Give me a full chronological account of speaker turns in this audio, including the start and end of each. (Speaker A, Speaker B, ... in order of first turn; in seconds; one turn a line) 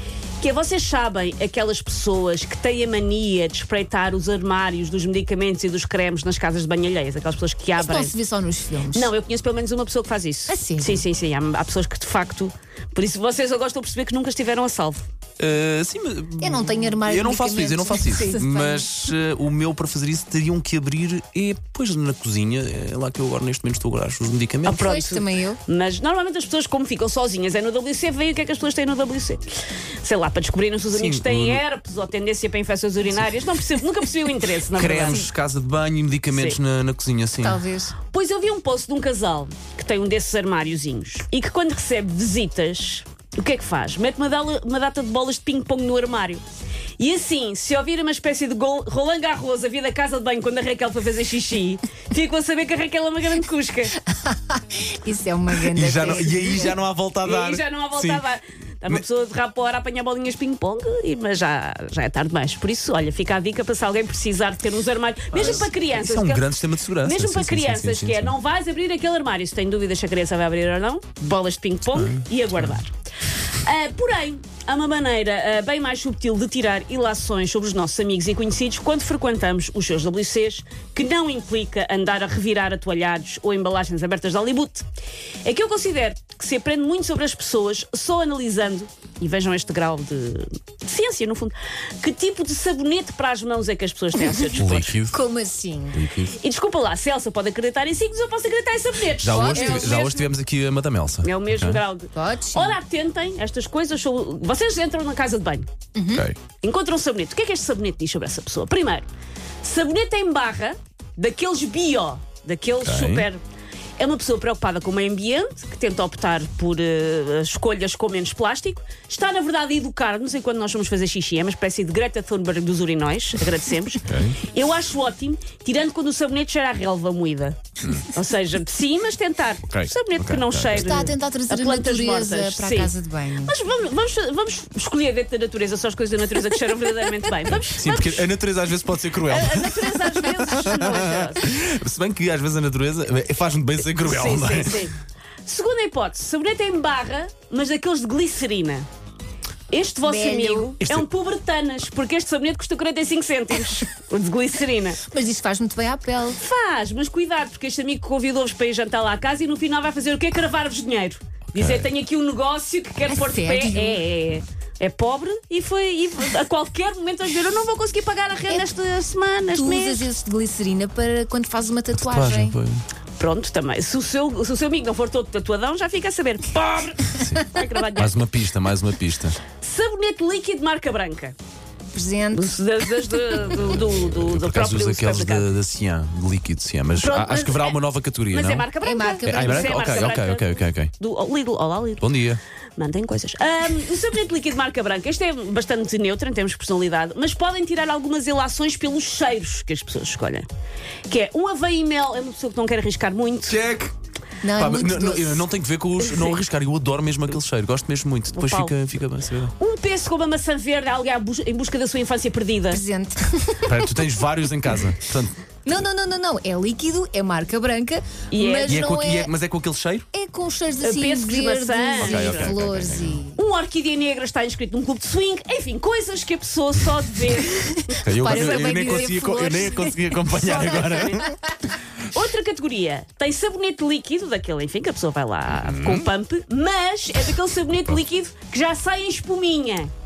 Speaker A: 0.4-8.1
Speaker B: 7.8-9.1
Speaker A: 8.9-15.1
Speaker B: 10.5-11.1
Speaker C: 15.4-24.9
Speaker B: 16.4-19.0
Speaker A: 24.6-29.4
Speaker B: 24.7-25.6
Speaker A: 30.0-35.3
Speaker C: 30.9-31.6
Speaker C: 34.7-37.6
Speaker A: 36.3-36.6
Speaker B: 37.4-37.9
Speaker A: 38.0-46.4
Speaker A: 47.0-54.0
Speaker B: 54.0-56.8
Speaker C: 55.5-58.2
Speaker A: 57.2-72.9
Speaker C: 65.3-68.3
Speaker C: 71.9-72.7
Speaker A: 73.6-84.8
Speaker A: 85.4-94.9
Speaker C: 94.5-95.2
Speaker B: 95.1-96.0
Speaker C: 95.9-96.3
Speaker A: 96.4-100.2
Speaker C: 99.2-101.8
Speaker B: 99.2-100.0
Speaker A: 101.2-105.7
Speaker B: 102.1-102.8
Speaker B: 105.9-106.2
Speaker C: 106.1-106.4
Speaker A: 106.6-109.1
Speaker A: 109.6-113.4
Speaker C: 112.8-113.3
Speaker A: 114.0-138.3
Speaker C: 124.0-124.4
Speaker C: 127.8-128.1
Speaker C: 129.7-131.0
Speaker B: 130.7-133.6
Speaker C: 137.5-144.9
Speaker A: 139.2-141.4
Speaker A: 144.0-144.9
Speaker A: 145.4-148.9
Speaker A: 149.7-155.0
Speaker B: 150.0-150.7
Speaker C: 150.8-151.1
Speaker B: 155.1-156.4
Speaker A: 156.4-170.1
Speaker C: 161.5-161.9
Speaker B: 163.0-164.0
Speaker B: 169.5-172.6
Speaker C: 171.9-172.8
Speaker A: 173.2-178.2
Speaker C: 177.1-177.4
Speaker C: 177.9-179.4
Speaker A: 179.6-181.3
Speaker B: 181.9-182.5
Speaker A: 182.3-185.5
Speaker C: 183.5-188.7
Speaker A: 187.0-187.8
Speaker A: 188.3-192.1
Speaker B: 188.8-189.8
Speaker C: 189.2-190.9
Speaker C: 192.0-192.4
Speaker A: 192.8-200.5
Speaker A: 201.1-203.6
Speaker C: 203.5-203.9
Speaker B: 204.4-205.5
Speaker C: 204.5-209.5
Speaker A: 206.1-206.3
Speaker A: 208.3-208.7
Speaker A: 209.6-212.8
Speaker B: 212.7-213.9
Speaker C: 213.6-215.3
Speaker B: 215.6-219.3
Speaker A: 218.3-218.8
Speaker C: 218.6-220.1
Speaker B: 220.1-223.4
Speaker A: 220.8-222.6
Speaker C: 222.0-223.2
Speaker A: 223.3-228.8
Speaker B: 227.6-231.4
Speaker C: 228.0-231.3
Speaker A: 232.1-239.9
Speaker C: 235.5-236.1